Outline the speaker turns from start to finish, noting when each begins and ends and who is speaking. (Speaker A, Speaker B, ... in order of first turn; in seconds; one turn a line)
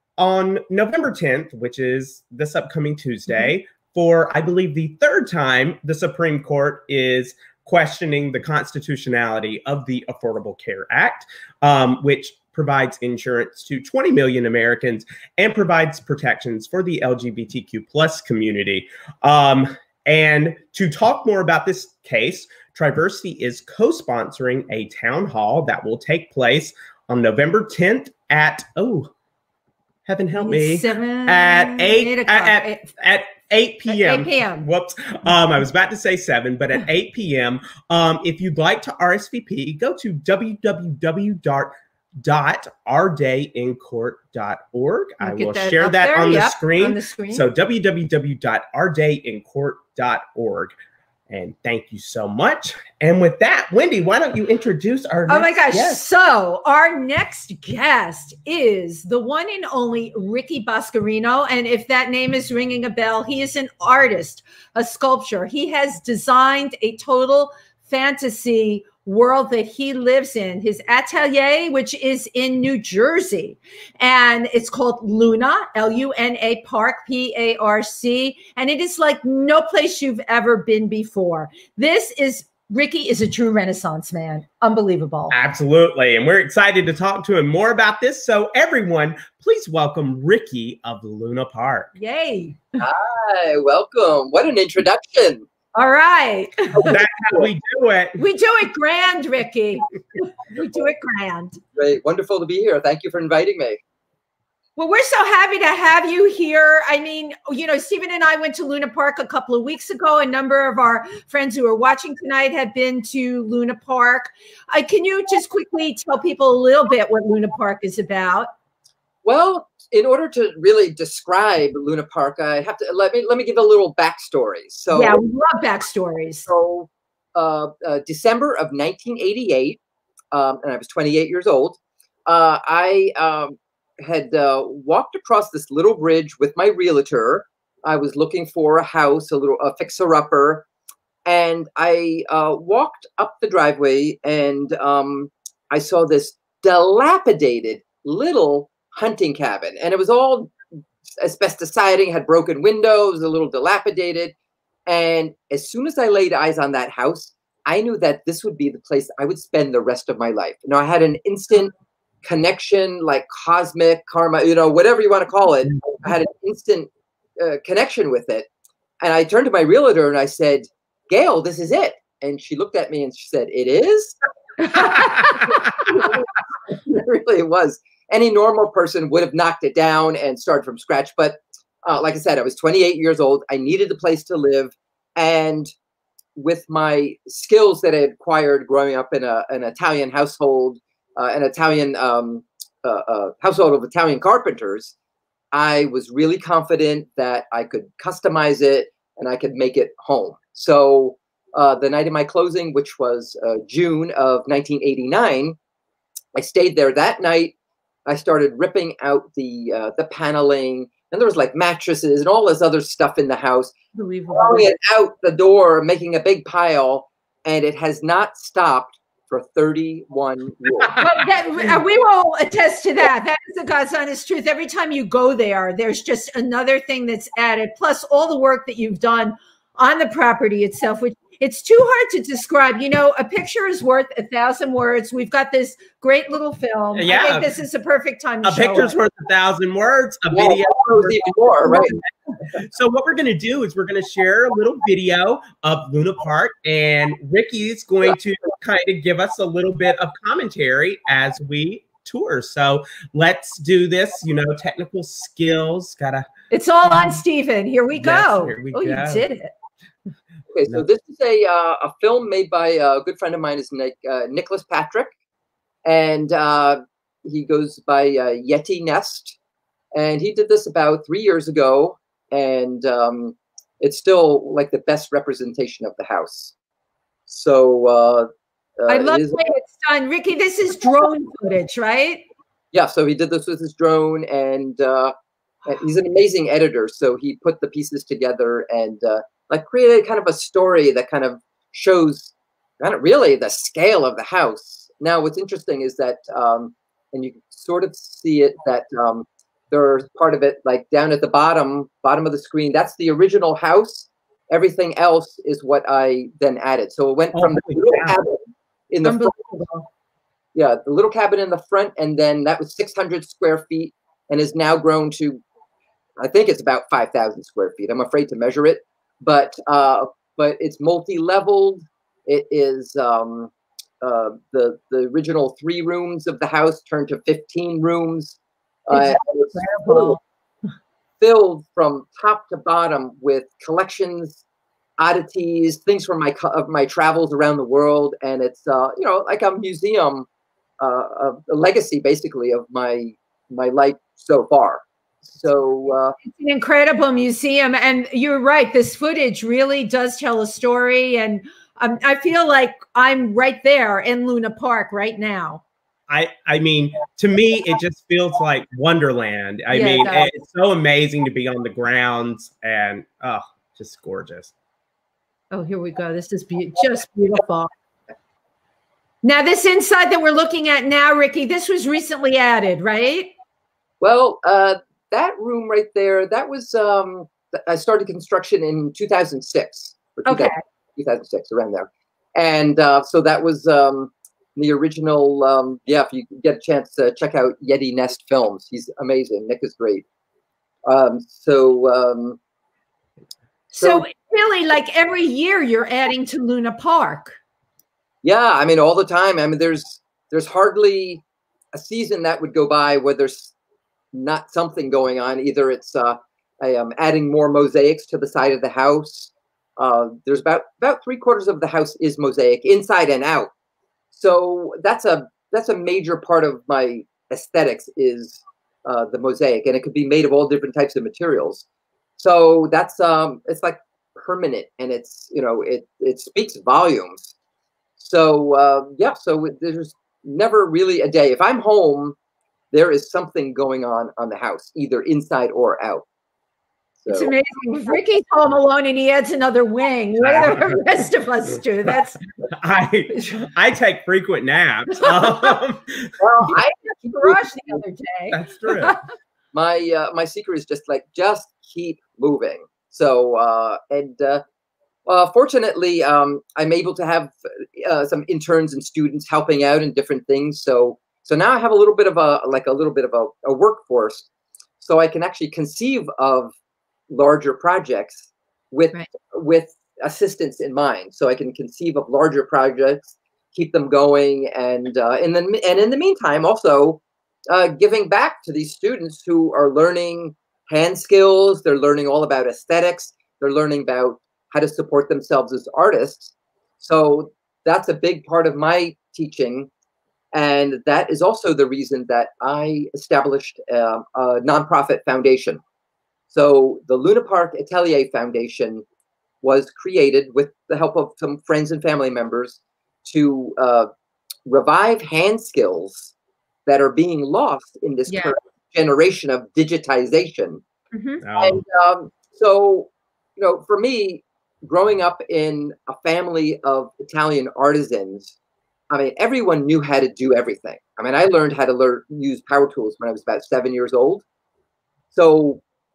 Speaker A: 0.2-29.1
Speaker A: 30.1-50.7
Speaker B: 30.3-32.9
Speaker B: 33.9-34.7
Speaker B: 45.2-47.5
Speaker A: 51.3-56.0
Speaker B: 55.3-85.3
Speaker A: 85.3-91.9
Speaker B: 92.0-92.8
Speaker C: 92.8-95.5
Speaker B: 95.7-97.0
Speaker A: 96.7-98.2
Speaker B: 98.2-101.6
Speaker C: 101.8-103.8
Speaker B: 104.8-118.5
Speaker C: 119.2-125.2
Speaker B: 124.9-126.5
Speaker C: 126.5-129.8
Speaker C: 130.3-140.6
Speaker C: 141.2-150.5
Speaker C: 151.2-154.3
Speaker C: 154.9-161.7
Speaker C: 162.2-168.5
Speaker C: 169.0-185.7
Speaker B: 174.7-175.6
Speaker C: 186.4-194.9
Speaker C: 195.5-205.6
Speaker C: 206.3-207.5
Speaker C: 208.1-213.8
Speaker B: 213.9-214.7
Speaker C: 214.3-221.1
Speaker B: 221.0-238.9
Speaker A: 236.9-237.5
Speaker A: 238.4-241.9
Speaker C: 240.3-241.9
Speaker A: 242.6-256.2
Speaker B: 256.5-259.5
Speaker A: 257.9-259.2
Speaker C: 260.5-265.1
Speaker C: 265.9-269.4
Speaker C: 269.9-276.5
Speaker C: 277.3-278.3
Speaker C: 278.8-279.4
Speaker B: 278.9-282.2
Speaker C: 282.7-285.1
Speaker C: 285.7-309.4
Speaker A: 307.3-308.2
Speaker B: 309.0-309.9
Speaker C: 310.6-315.4
Speaker C: 316.2-330.2
Speaker B: 328.9-330.2
Speaker C: 331.2-334.4
Speaker C: 335.0-340.3
Speaker C: 340.8-346.2
Speaker B: 346.2-355.6
Speaker A: 356.1-364.5
Speaker B: 359.7-360.3
Speaker B: 365.5-367.7
Speaker B: 369.2-373.3
Speaker C: 374.0-390.0
Speaker B: 380.3-380.6
Speaker C: 390.9-392.4
Speaker B: 393.7-397.4
Speaker C: 393.8-394.1
Speaker C: 398.2-401.2
Speaker C: 401.8-403.5
Speaker C: 404.1-413.5
Speaker C: 414.1-421.6
Speaker C: 422.2-427.4
Speaker C: 428.0-432.2
Speaker C: 432.7-436.0
Speaker C: 437.0-437.3
Speaker B: 437.1-442.2
Speaker A: 440.2-440.8
Speaker A: 442.5-446.1
Speaker B: 445.0-445.5
Speaker C: 446.2-447.8
Speaker B: 446.5-449.0
Speaker A: 448.3-449.0
Speaker C: 449.5-454.4
Speaker C: 455.1-464.3
Speaker C: 464.8-466.5
Speaker C: 467.1-489.7
Speaker C: 490.3-495.6
Speaker C: 496.3-498.8
Speaker C: 499.4-503.9
Speaker C: 504.4-506.1
Speaker C: 506.7-510.6
Speaker B: 508.1-508.3
Speaker B: 510.9-511.2
Speaker A: 511.2-511.6
Speaker C: 511.4-518.3
Speaker C: 518.9-524.2
Speaker C: 525.1-525.6